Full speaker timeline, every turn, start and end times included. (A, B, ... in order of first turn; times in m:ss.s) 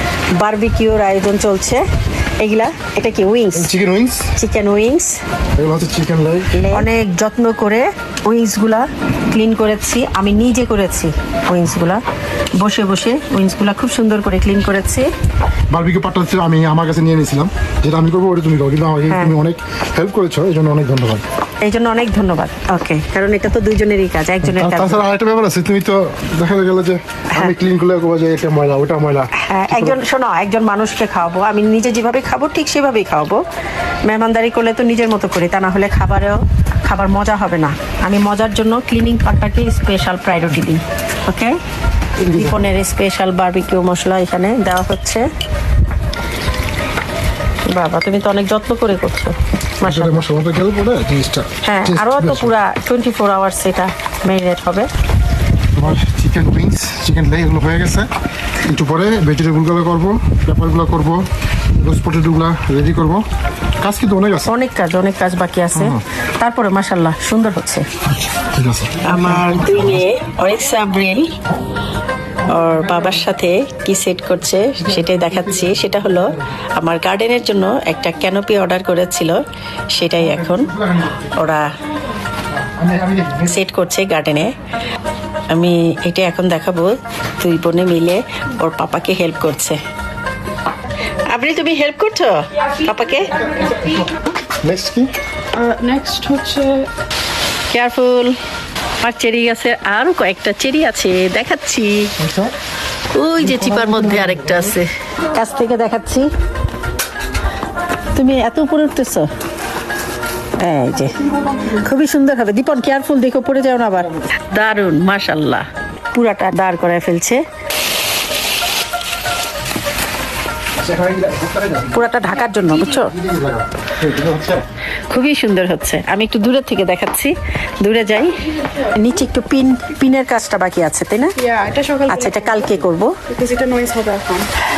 0:00.4-0:01.8 A
0:02.4-0:03.7 A
0:03.5-0:04.3 B
0:04.4-0:05.1 A
0:05.6-0:06.8 B
0:06.7-0:12.0 A
0:12.6-0:15.1 A
0:15.7-0:21.2 B
0:21.6-0:25.0 A
0:24.4-0:30.0 B
0:29.4-0:33.4 A
0:34.0-0:41.6 A
0:42.2-0:42.5 B
0:42.3-0:45.2 A
0:47.7-0:50.2 A
0:49.8-0:52.5 B
0:51.6-0:54.9 A
0:55.7-0:58.1 B
0:58.6-1:01.2 B
1:01.8-1:03.2 B
1:03.8-1:04.5 B
1:04.5-1:07.8 A
1:05.7-1:06.0 B
1:08.4-1:09.6 B
1:09.0-1:11.3 A
1:12.5-1:19.4 A
1:19.9-1:20.7 A
1:20.4-1:21.3 B
1:21.4-1:21.6 A
1:22.6-1:23.6 B
1:23.5-1:24.5 A
1:25.5-1:29.8 A
1:31.3-1:33.3 A
1:34.6-1:35.1 B
1:35.6-1:36.6 C
1:37.7-1:38.4 A
1:39.0-1:42.1 A
1:42.2-1:42.5 B
1:43.2-1:44.8 A
1:43.6-1:44.0 B
1:45.3-1:46.3 A
1:48.2-1:49.3 A
1:50.6-1:51.1 A
1:51.8-1:57.4 A
2:01.9-2:03.1 A
2:03.1-2:04.6 B
2:05.1-2:11.3 A
2:11.4-2:12.1 C
2:12.1-2:13.1 A
2:13.4-2:14.4 C